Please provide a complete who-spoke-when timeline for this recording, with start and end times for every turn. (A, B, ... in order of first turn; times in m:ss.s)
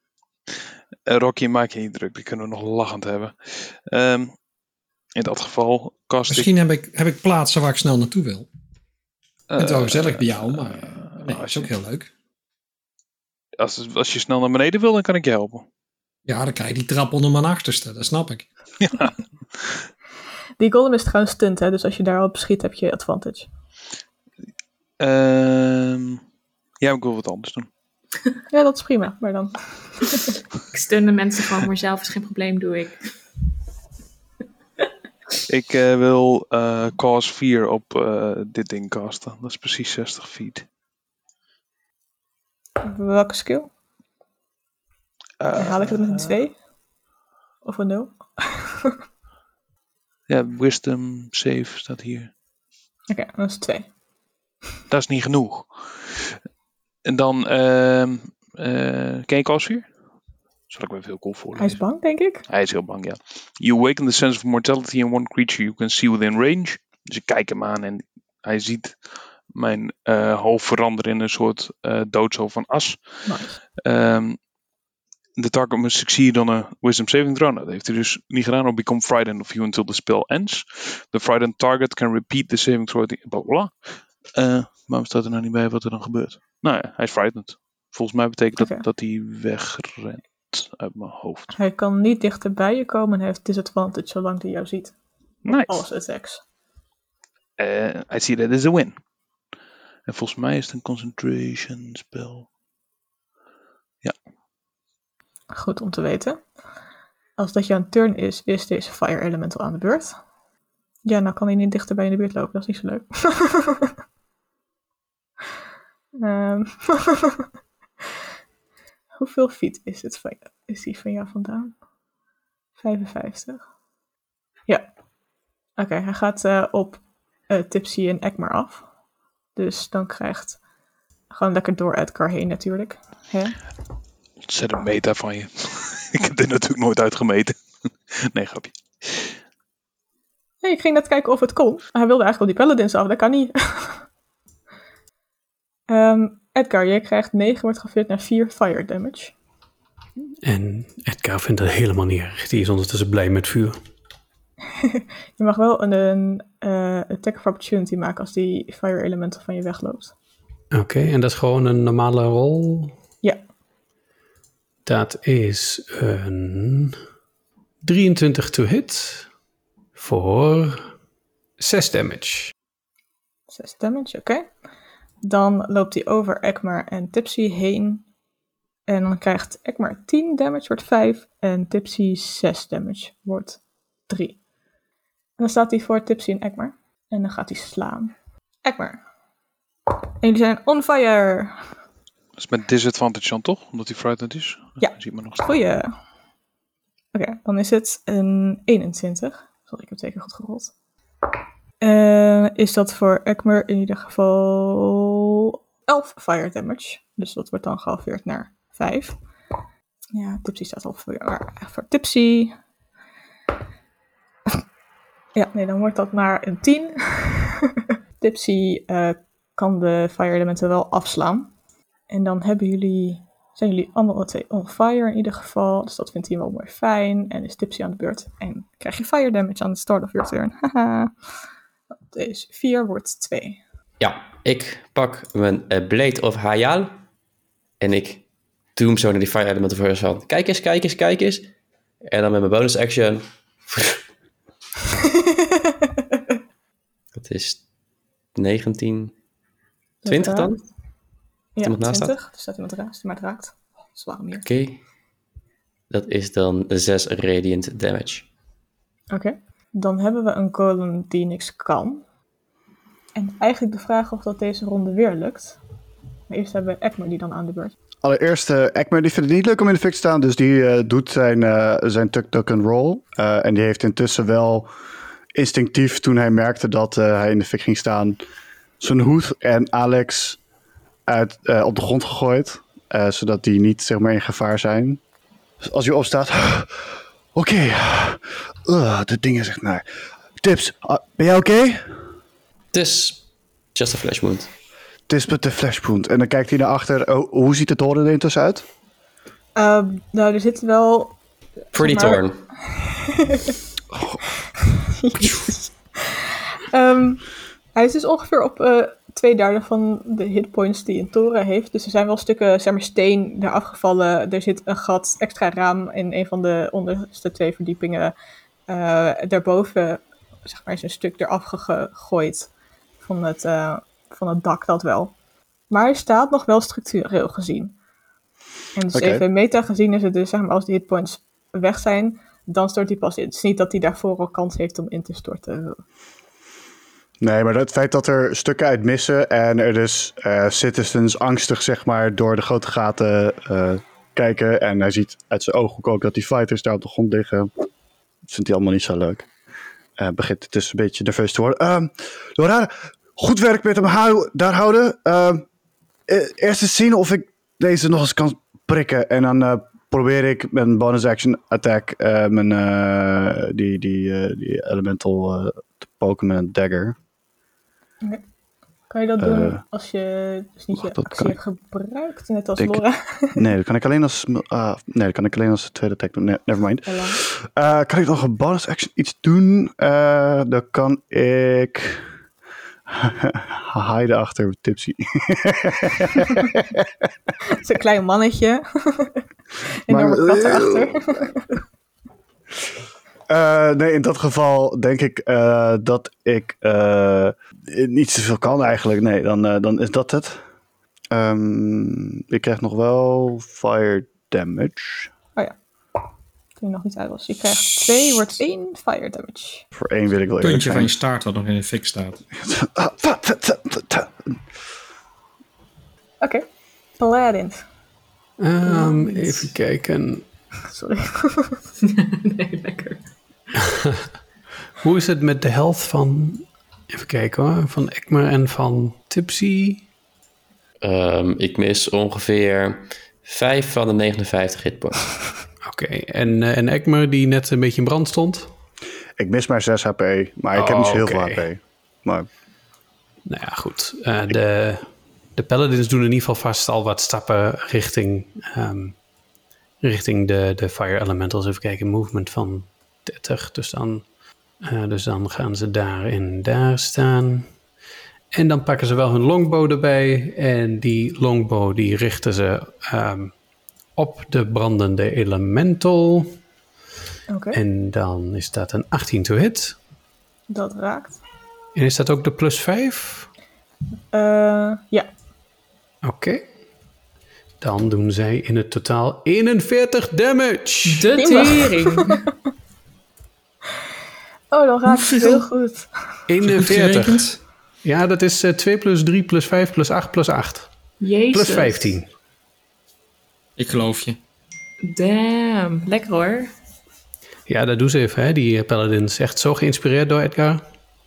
0:01.1-0:04.4 A
0:05.2-0:06.5 A
0:06.3-0:08.5 B
0:09.5-0:11.7 A
0:09.6-0:12.1 B
0:13.6-0:15.7 A
0:16.3-0:18.5 B
0:18.8-0:19.1 A
0:20.6-0:23.5 C
0:25.0-0:26.2 A
0:26.8-0:27.7 A
0:28.5-0:30.3 C
0:30.7-0:33.1 D
0:35.5-0:40.7 A
0:42.8-0:43.7 C
0:45.4-0:46.4 A
0:45.6-0:46.6 C
0:47.6-0:49.0 C
0:50.3-0:52.3 A
0:53.1-0:53.9 C
0:54.9-0:56.4 A
0:57.0-0:59.9 A
1:00.7-1:01.8 A
1:01.6-1:02.4 C
1:02.5-1:13.1 A
1:13.3-1:13.6 C
1:13.8-1:14.4 A
1:15.4-1:23.8 A
1:24.4-1:31.5 A
1:28.6-1:28.8 C
1:31.5-1:35.0 C
1:35.4-1:35.8 A
1:35.5-1:36.4 C
1:37.6-1:39.0 A
1:40.1-1:42.5 A
1:45.5-1:46.4 C
1:47.4-1:50.2 C
1:51.0-1:53.9 C
1:56.2-1:57.4 C
1:59.2-2:01.8 C
2:02.8-2:03.6 C
2:05.8-2:08.8 C
2:09.6-2:10.6 C
2:11.3-2:13.6 C
2:14.4-2:19.3 A
2:20.6-2:24.0 C
2:25.9-2:29.3 C
2:30.4-2:33.8 E
2:34.8-2:40.1 C
2:40.7-2:42.9 E
2:44.8-2:47.0 E
2:47.8-2:49.3 E
2:50.0-2:50.9 E
2:51.6-2:52.5 E
2:53.5-2:54.5 C
2:55.2-2:58.0 C
2:58.9-3:04.4 C
3:05.4-3:08.1 C
3:08.6-3:09.0 C
3:10.2-3:11.6 C
3:12.4-3:15.5 A
3:14.8-3:15.9 C
3:17.1-3:20.7 C
3:21.8-3:29.2 C
3:30.1-3:32.5 C
3:35.4-3:41.5 C
3:42.1-3:51.1 C
3:52.1-3:53.6 C
3:54.0-3:57.0 F
3:57.8-3:58.2 F
3:58.8-4:01.5 F
4:02.0-4:04.0 F
4:07.2-4:07.6 F
4:08.4-4:09.2 F
4:10.0-4:10.5 C
4:10.1-4:10.6 F
4:11.6-4:14.5 C
4:11.6-4:12.1 F
4:14.4-4:14.8 F
4:15.9-4:18.3 F
4:19.1-4:22.0 C
4:23.2-4:25.6 C
4:26.3-4:27.7 C
4:28.0-4:34.7 G
4:35.3-4:38.2 G
4:38.8-4:40.4 G
4:41.1-4:45.0 G
4:45.6-4:49.8 G
4:50.4-4:52.0 G
4:52.7-4:53.2 F
4:53.8-4:54.5 F
4:55.1-4:58.6 G
4:59.6-5:01.2 C
5:01.7-5:03.6 C
5:01.7-5:02.4 F
5:03.9-5:04.2 G
5:04.9-5:18.1 C
5:18.7-5:22.5 C
5:23.0-5:25.1 C
5:25.7-5:27.8 C
5:28.8-5:35.8 C
5:28.9-5:29.2 G
5:37.2-5:47.5 G
5:48.3-5:49.3 G
5:50.0-5:55.4 G
5:56.1-6:07.0 G
6:08.9-6:13.4 C
6:09.2-6:09.6 G
6:10.7-6:11.4 G
6:12.6-6:12.8 G
6:13.3-6:22.0 G
6:16.9-6:17.2 C
6:22.9-6:26.9 G
6:27.5-6:29.2 C
6:29.8-6:31.5 C
6:29.9-6:31.3 G
6:33.3-6:40.4 G
6:41.1-6:45.1 G
6:46.6-6:49.7 C
6:49.8-6:50.9 G
6:50.4-6:52.2 B
6:52.4-6:54.4 G
6:57.0-6:57.6 C
6:58.4-7:00.2 E
6:58.6-6:59.4 C
7:00.7-7:01.6 C
7:01.8-7:03.1 D
7:03.6-7:04.1 E
7:04.8-7:09.8 E
7:10.8-7:15.3 F
7:15.6-7:18.5 E
7:19.2-7:22.3 G
7:20.6-7:21.4 E
7:23.2-7:29.0 E
7:29.8-7:34.0 E
7:34.6-7:37.5 E
7:38.3-7:43.3 E
7:44.0-7:46.4 E
7:47.3-7:47.6 C
7:47.5-7:49.8 E
7:50.5-7:51.2 C
7:51.8-7:53.3 E
7:54.1-7:55.1 C
7:56.0-7:56.5 E
7:57.6-8:01.1 E
8:00.9-8:02.3 D
8:01.2-8:02.2 C
8:04.5-8:05.9 C
8:04.9-8:05.4 B
8:06.3-8:10.7 E
8:06.4-8:07.4 B
8:11.0-8:12.0 D
8:11.3-8:12.1 E
8:13.6-8:14.2 B
8:14.8-8:16.5 D
8:17.5-8:20.6 E